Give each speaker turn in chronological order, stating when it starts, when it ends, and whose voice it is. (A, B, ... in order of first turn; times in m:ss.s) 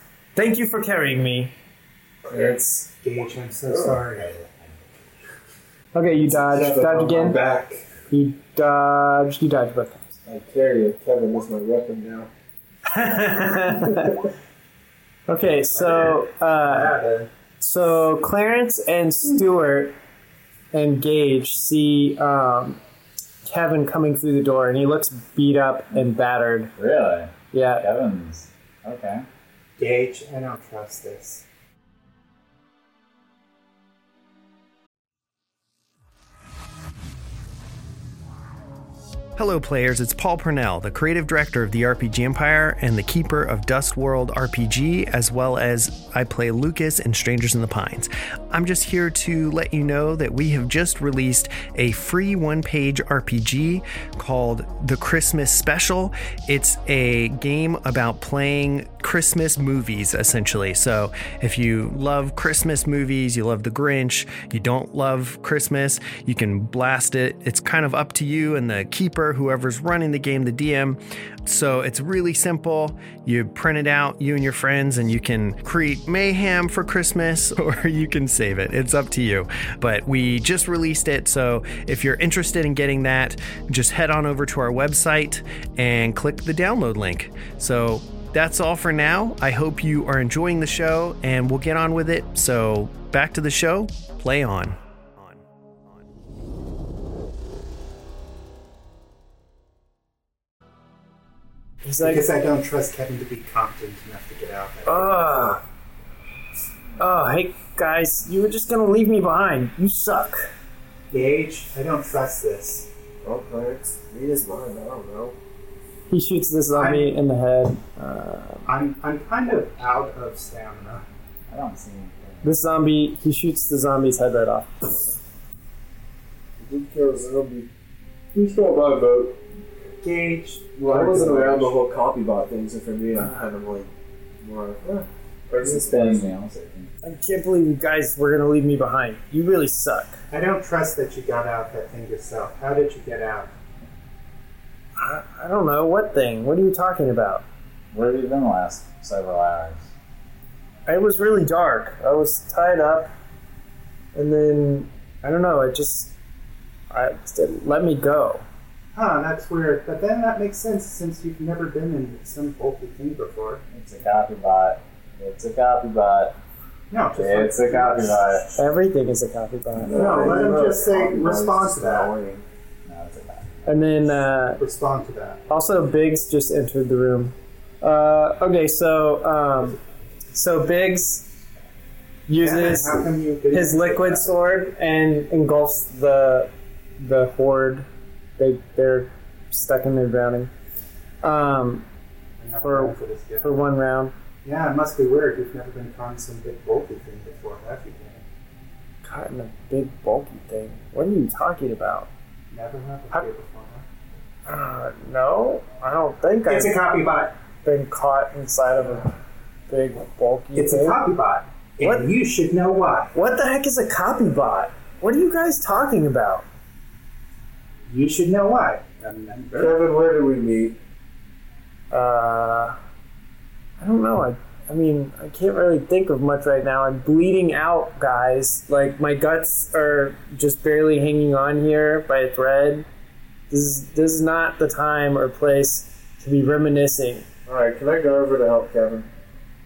0:00.4-0:01.5 A
0:02.3-0:02.9 B
0:03.0-0:04.5 C
0:03.7-0:04.0 B
0:05.9-0:07.4 A
0:06.2-0:07.8 B
0:08.1-0:10.1 A
0:10.3-0:12.3 B
0:12.9-0:14.3 A
0:15.3-0:17.0 A
0:15.8-0:17.3 C
0:17.6-0:19.9 A
0:20.7-0:22.8 A
0:23.4-0:26.7 A
0:26.8-0:29.2 D
0:27.5-0:27.8 A
0:29.8-0:31.4 C
0:39.4-1:35.4 E
1:41.8-1:42.3 A
1:42.0-1:45.6 C
1:44.9-1:45.6 A
1:47.0-1:50.5 A
1:51.1-1:52.9 C
1:53.2-1:55.4 B
1:56.1-1:58.7 A
1:56.7-1:57.1 C
1:58.7-2:01.0 C
2:01.5-2:02.6 D
2:02.4-2:05.1 A
2:06.6-2:07.7 B
2:08.3-2:09.4 B
2:10.0-2:11.7 C
2:10.8-2:13.9 B
2:14.4-2:16.3 B
2:15.6-2:16.9 D
2:17.0-2:20.2 A
2:20.3-2:23.5 C
2:25.0-2:27.4 A
2:27.9-2:29.9 D
2:30.9-2:33.1 A
2:34.1-2:36.1 A
2:36.9-2:38.4 A
2:38.9-2:43.6 C
2:43.7-2:46.4 D
2:46.9-2:48.4 C
2:47.2-2:48.6 D
2:48.6-2:50.5 A
2:49.8-2:52.4 B
2:49.9-2:52.1 C
2:52.9-2:54.0 D
2:53.7-2:54.6 A
2:54.6-2:55.4 C
2:55.5-2:59.8 A
3:00.3-3:01.3 A
3:02.3-3:07.9 A
3:02.4-3:04.3 C
3:08.4-3:10.5 A
3:11.2-3:11.9 A
3:12.4-3:13.6 C
3:12.6-3:14.1 A
3:14.4-3:18.2 C
3:19.0-3:22.1 A
3:22.5-3:23.9 C
3:24.5-3:26.9 A
3:26.5-3:27.3 C
3:27.6-3:29.2 A
3:29.7-3:31.0 A
3:30.6-3:33.1 C
3:31.8-3:32.1 A
3:33.1-3:36.4 A
3:37.9-3:39.8 C
3:39.6-3:40.8 B
3:41.9-3:42.8 A
3:43.8-3:52.9 A
3:53.5-3:57.3 A
3:57.5-3:59.1 B